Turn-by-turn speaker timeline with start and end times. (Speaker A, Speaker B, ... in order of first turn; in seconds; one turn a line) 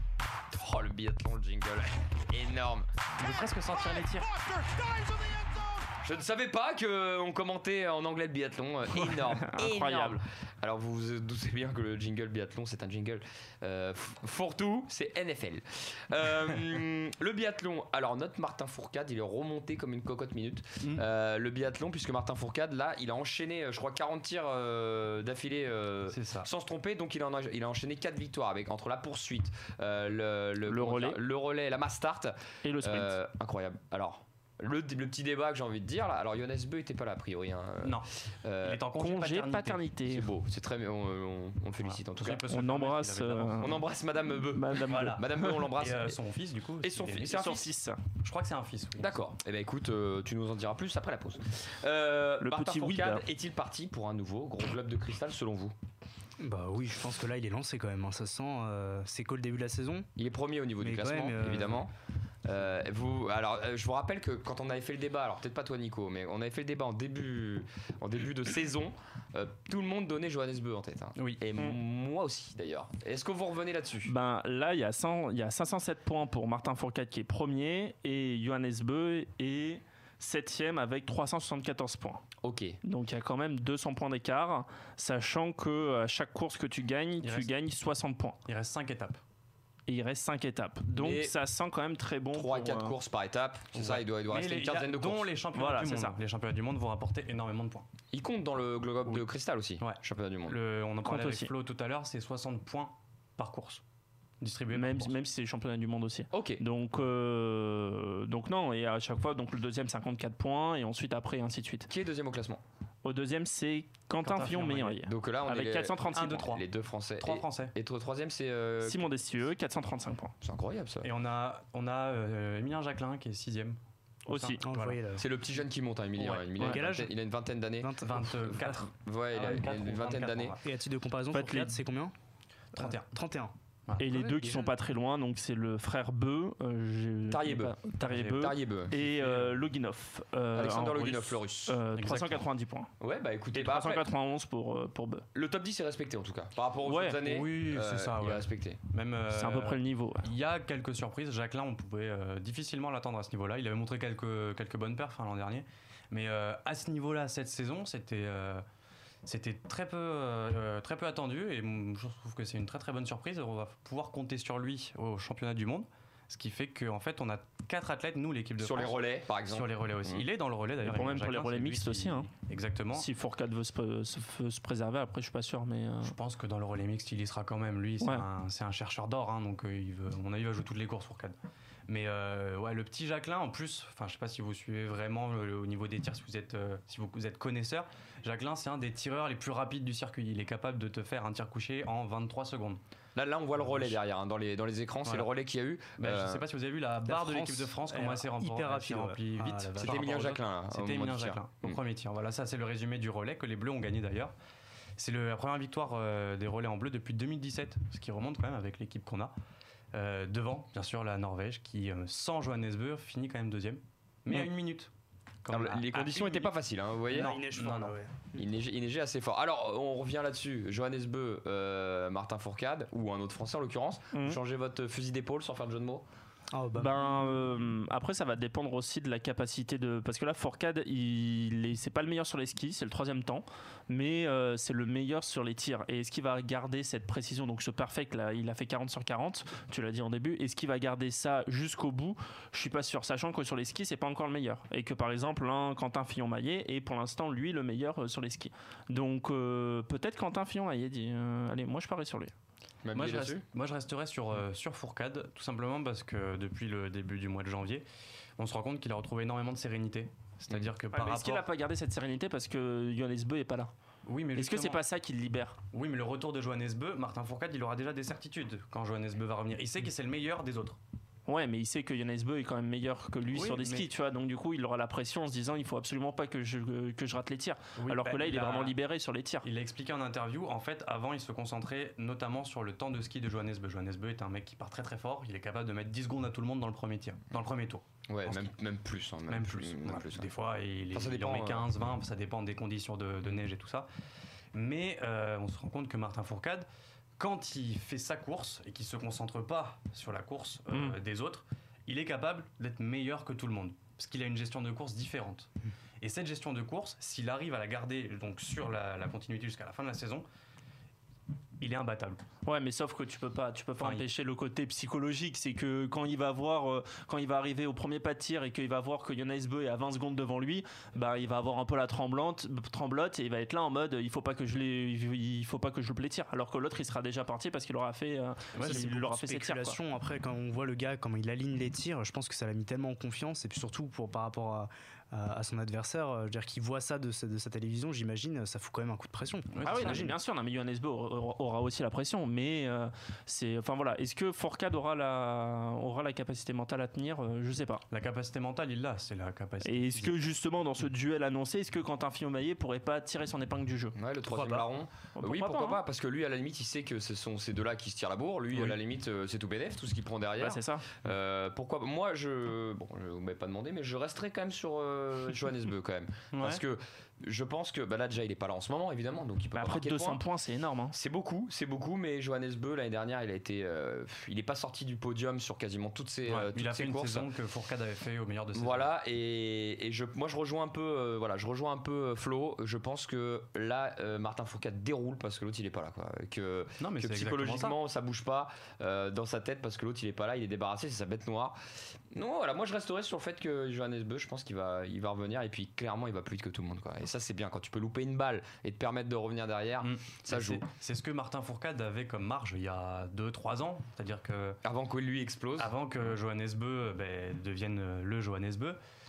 Speaker A: 0.5-2.9
Speaker B: 3.2-4.9
Speaker A: 6.0-38.8
Speaker C: 9.1-10.2
Speaker B: 26.1-26.5
Speaker C: 30.7-31.2
Speaker C: 32.6-33.2
Speaker B: 37.8-39.9
Speaker C: 39.0-40.3
Speaker A: 40.1-42.5
Speaker B: 41.8-43.9
Speaker C: 42.5-43.8
Speaker A: 43.6-46.2
Speaker C: 44.5-45.5
Speaker B: 44.9-47.6
Speaker A: 46.8-47.7
Speaker C: 47.3-48.0
Speaker B: 48.2-49.2
Speaker A: 49.0-55.8
Speaker C: 52.4-53.2
Speaker D: 56.4-60.1
Speaker A: 60.2-74.1
Speaker D: 60.8-61.9
Speaker B: 71.2-71.4
Speaker C: 74.0-82.2
Speaker A: 82.4-82.8
Speaker C: 82.8-88.4
Speaker B: 87.2-87.5
Speaker B: 88.5-89.2
Speaker C: 89.9-92.9
Speaker A: 90.9-91.4
Speaker A: 92.3-95.3
Speaker B: 93.7-97.9
Speaker C: 95.5-96.2
Speaker A: 98.1-100.6
Speaker B: 99.8-103.8
Speaker C: 101.0-101.5
Speaker B: 104.4-105.2
Speaker C: 104.7-111.9
Speaker A: 106.3-106.6
Speaker A: 111.9-112.6
Speaker C: 113.0-116.5
Speaker B: 114.2-115.0
Speaker A: 115.0-119.1
Speaker B: 116.1-116.7
Speaker B: 117.2-117.8
Speaker C: 118.8-120.3
Speaker A: 120.4-121.1
Speaker B: 121.0-123.8
Speaker C: 124.3-124.6
Speaker B: 124.3-125.0
Speaker D: 124.6-125.2
Speaker A: 125.1-130.6
Speaker D: 126.2-127.1
Speaker D: 127.8-128.2
Speaker B: 128.0-130.6
Speaker D: 130.6-132.1
Speaker C: 131.3-131.8
Speaker D: 132.7-133.5
Speaker B: 132.8-133.1
Speaker C: 134.0-142.9
Speaker D: 134.1-134.7
Speaker A: 137.3-138.9
Speaker B: 138.9-139.6
Speaker A: 140.5-141.8
Speaker B: 141.9-142.5
Speaker A: 143.0-144.1
Speaker C: 143.5-145.3
Speaker A: 145.3-148.8
Speaker C: 146.9-147.2
Speaker B: 147.2-158.7
Speaker C: 149.3-150.3
Speaker B: 159.2-173.1
Speaker A: 168.6-170.3
Speaker C: 170.8-172.3
Speaker C: 172.9-176.1
Speaker B: 176.0-181.4
Speaker B: 181.9-192.8
Speaker A: 193.2-196.4
Speaker B: 193.6-194.0
Speaker B: 196.0-204.3
Speaker D: 197.1-200.0
Speaker A: 199.8-201.8
Speaker B: 205.0-209.3
Speaker B: 209.9-214.9
Speaker B: 215.4-216.6
Speaker A: 215.5-217.3
Speaker B: 217.1-218.0
Speaker D: 217.1-218.4
Speaker A: 218.4-226.1
Speaker C: 224.1-224.4
Speaker D: 226.5-227.3
Speaker C: 226.8-252.3
Speaker A: 252.8-253.4
Speaker B: 252.9-257.9
Speaker B: 258.4-261.5
Speaker C: 260.9-263.7
Speaker B: 264.1-264.8
Speaker C: 264.4-265.6
Speaker B: 265.7-270.8
Speaker C: 271.3-279.5
Speaker B: 273.3-273.9
Speaker B: 277.8-278.8
Speaker B: 279.4-288.5
Speaker A: 288.1-290.3
Speaker B: 289.3-293.9
Speaker A: 290.9-291.7
Speaker B: 294.5-296.7
Speaker B: 297.2-305.5
Speaker B: 306.0-310.3
Speaker B: 311.6-312.2
Speaker C: 312.4-329.8
Speaker B: 313.8-314.1
Speaker B: 328.5-328.9
Speaker D: 328.6-340.2
Speaker B: 339.5-340.1
Speaker C: 339.6-347.8
Speaker B: 347.9-350.2
Speaker C: 349.6-354.6
Speaker A: 354.0-370.2
Speaker C: 355.2-355.8
Speaker C: 360.4-360.9
Speaker B: 366.3-366.6
Speaker C: 369.6-371.0
Speaker A: 370.9-377.3
Speaker B: 376.3-378.9
Speaker A: 378.5-391.6
Speaker B: 386.8-387.8
Speaker A: 392.1-400.6
Speaker B: 399.8-404.6
Speaker A: 404.6-405.7
Speaker B: 405.6-408.8